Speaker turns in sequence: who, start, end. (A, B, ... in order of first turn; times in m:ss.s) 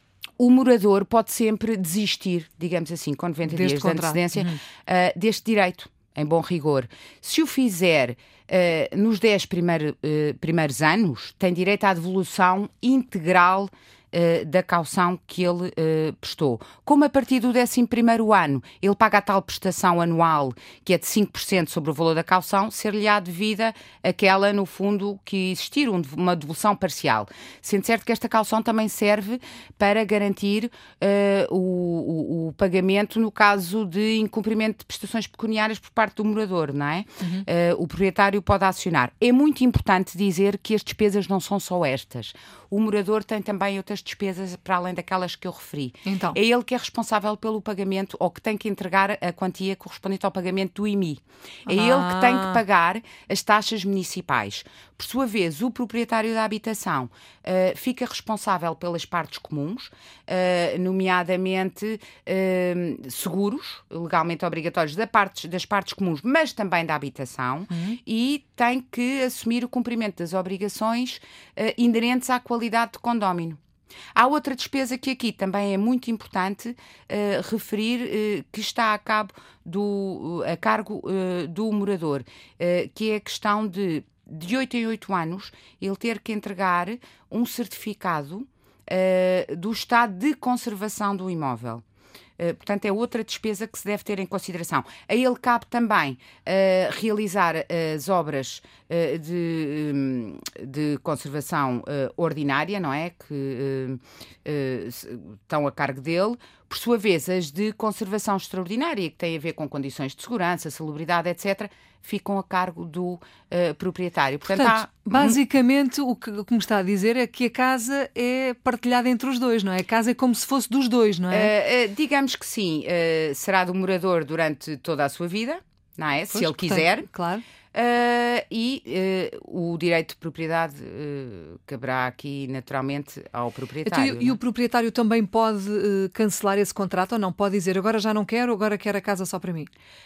0:00.4-1:13.6 A
0:03.4-0:04.6 B
0:37.2-0:37.4 B
0:46.0-0:46.4 B
0:51.7-0:52.6 B
1:07.7-1:08.0 B
1:14.1-1:31.8 A
1:32.4-1:55.4 A
1:54.5-2:01.5 B
2:01.3-2:07.1 A
2:06.3-2:07.4 B
2:07.7-2:14.4 A
2:13.8-2:19.7 B